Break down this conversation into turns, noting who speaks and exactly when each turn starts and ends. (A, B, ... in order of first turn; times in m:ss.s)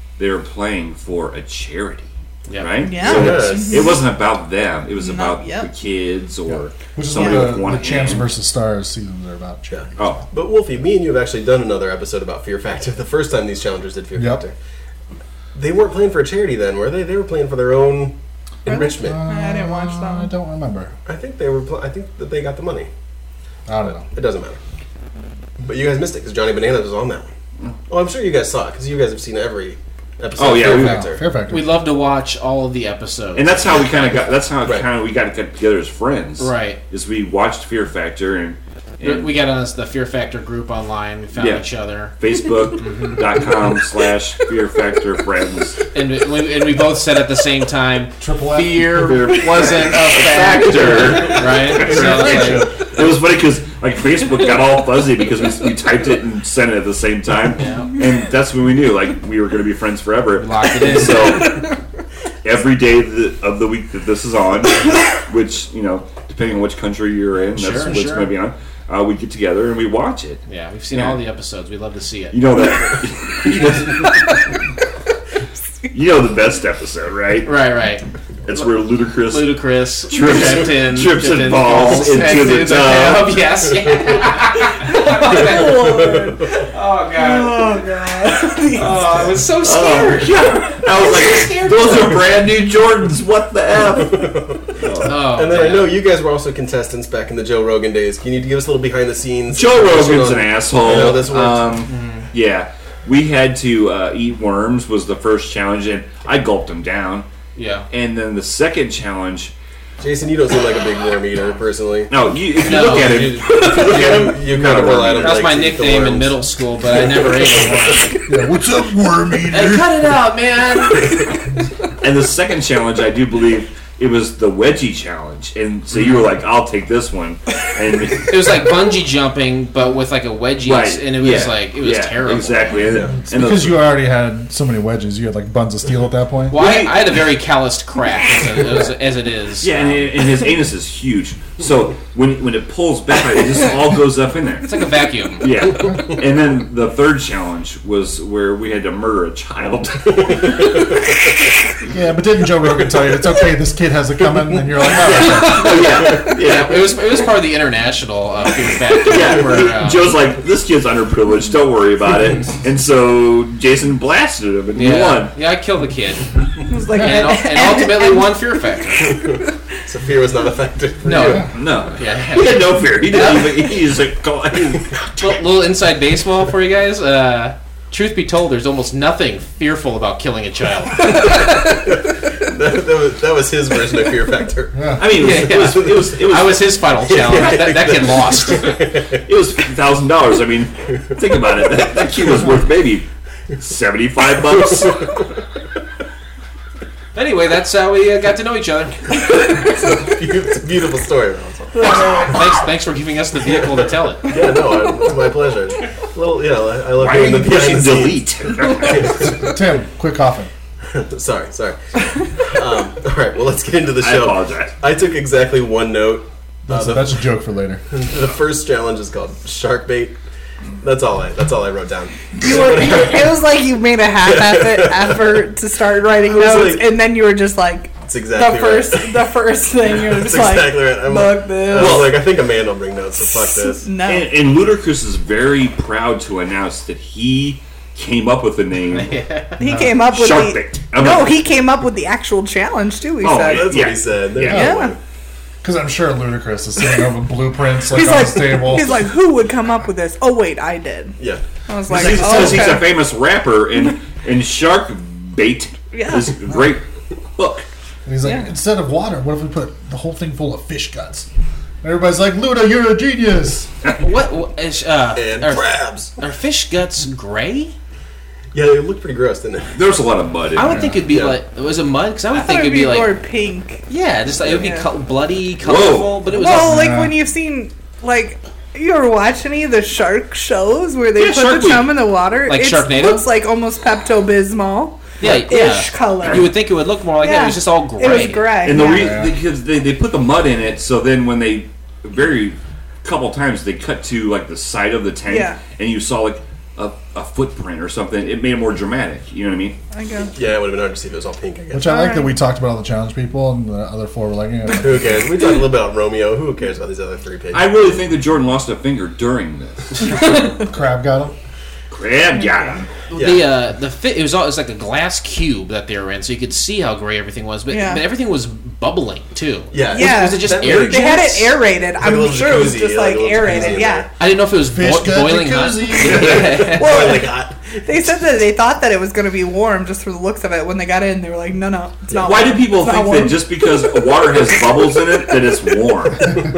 0:00.2-0:08.3 A
0:02.5-0:02.9 B
0:02.8-0:04.0 C
0:03.0-0:04.1 D
0:05.0-0:05.7 C
0:06.5-0:09.8 E
0:07.2-0:07.5 C
0:09.7-0:14.6 D
0:10.0-0:10.2 A
0:14.2-0:14.4 E
0:15.6-0:19.2 D
0:18.7-0:20.3 C
0:18.8-0:20.9 E
0:21.1-0:22.9 D
0:23.7-0:24.1 E
0:24.1-0:24.6 D
0:25.6-0:27.3 D
0:27.9-0:31.2 D
0:30.4-0:31.1 A
0:30.4-0:31.8 E
0:31.5-0:34.1 B
0:33.4-0:39.3 A
0:34.6-0:34.9 D
0:36.4-0:36.8 B
0:39.0-0:42.2 B
0:41.4-0:41.7 A
0:42.2-0:45.8 A
0:42.8-0:43.4 B
0:45.9-0:52.7 B
0:48.2-0:49.2 E
0:48.9-1:01.7 A
0:51.8-0:52.9 E
0:57.6-0:57.9 B
1:00.4-1:01.6 B
1:01.4-1:01.6 C
1:02.4-1:10.4 A
1:07.5-1:08.3 B
1:10.5-1:12.7 B
1:10.9-1:11.2 A
1:12.3-1:14.4 A
1:15.9-1:17.6 A
1:17.4-1:18.7 B
1:18.5-1:23.4 A
1:19.2-1:26.2 B
1:24.8-1:29.2 C
1:25.5-1:26.4 D
1:26.7-1:27.8 B
1:28.7-1:32.3 B
1:29.6-1:35.3 A
1:33.8-1:41.8 D
1:35.0-1:36.0 B
1:39.5-1:47.3 A
1:41.9-1:42.3 B
1:47.6-1:47.9 B
1:47.9-1:49.5 A
1:50.0-1:58.0 D
1:52.1-1:55.5 A
1:52.6-1:54.3 B
1:55.2-1:58.2 B
1:58.3-2:00.0 E
1:59.5-2:01.3 B
2:02.0-2:08.8 A
2:08.2-2:12.9 B
2:10.7-2:13.9 A
2:12.9-2:13.2 D
2:13.2-2:16.6 E
2:16.5-2:20.1 B
2:16.5-2:17.1 A
2:19.6-2:24.7 A
2:24.6-2:25.8 B
2:25.4-2:31.0 A
2:30.6-2:30.8 D
2:31.9-2:35.8 E
2:35.0-2:37.1 A
2:35.1-2:40.2 B
2:39.0-2:45.4 A
2:44.8-2:49.2 B
2:46.7-2:48.6 C
2:49.1-2:49.4 C
2:49.1-2:51.6 D
2:51.0-2:53.7 B
2:51.1-2:51.5 E
2:51.5-2:55.2 A
2:55.2-3:01.5 B
3:01.2-3:06.1 D
3:04.7-3:05.2 E
3:05.0-3:06.7 A
3:05.1-3:08.8 B
3:07.1-3:09.3 D
3:09.2-3:13.1 A
3:13.6-3:15.2 A
3:17.1-3:19.2 B
3:19.3-3:22.3 D
3:21.7-3:22.6 C
3:22.1-3:24.4 B
3:24.2-3:28.3 D
3:27.0-3:29.4 A
3:29.2-3:30.5 E
3:30.9-3:37.2 D
3:34.0-3:34.7 A
3:36.7-3:37.8 E
3:37.9-3:40.2 D
3:40.8-3:43.4 D
3:42.4-3:52.1 C
3:44.2-3:45.4 D
3:46.2-3:46.9 D
3:48.0-3:49.2 D
3:49.8-3:53.9 D
3:51.8-3:52.2 A
3:53.2-3:54.3 C
3:54.0-3:59.2 A
3:58.9-3:59.6 B
3:59.6-4:03.7 C
4:00.0-4:01.4 A
4:03.2-4:04.7 A
4:03.4-4:05.0 D
4:04.4-4:04.7 E
4:04.4-4:05.0 C
4:05.6-4:09.1 E
4:07.9-4:11.2 C
4:11.7-4:13.0 C
4:11.9-4:16.8 A
4:11.9-4:12.6 E
4:15.9-4:16.4 C
4:17.4-4:17.7 A
4:18.1-4:21.3 E
4:18.2-4:18.5 C
4:21.8-4:23.8 E
4:24.0-4:27.7 B
4:25.2-4:26.2 D
4:28.5-4:30.1 D
4:29.8-4:30.9 A
4:30.6-4:33.1 B
4:30.6-4:31.1 E
4:31.1-4:31.4 D
4:32.3-4:33.8 C
4:33.9-4:36.9 B
4:34.5-4:34.9 C
4:35.6-4:36.5 A
4:36.3-4:46.5 C
4:36.5-4:37.2 E
4:41.2-4:42.0 A
4:42.5-4:43.3 B
4:45.2-4:48.7 B
4:46.2-4:46.5 A
4:47.2-4:49.2 C
4:48.2-4:59.8 A
4:48.7-4:49.4 E
4:55.3-4:55.6 C
4:59.9-5:00.3 C
5:00.3-5:02.0 D
5:01.7-5:05.4 E
5:01.8-5:02.4 C
5:04.8-5:08.0 D
5:07.5-5:10.4 A
5:10.6-5:11.3 E
5:11.9-5:12.9 A
5:12.4-5:12.8 C
5:13.1-5:13.5 D
5:13.1-5:21.5 B
5:17.7-5:18.0 C
5:19.7-5:24.1 D
5:19.9-5:24.1 C
5:24.2-5:27.3 B
5:24.6-5:26.6 E
5:26.0-5:26.5 A
5:26.1-5:27.9 D
5:26.5-5:27.3 C
5:27.8-5:35.7 C
5:32.1-5:32.4 D
5:32.2-5:36.4 A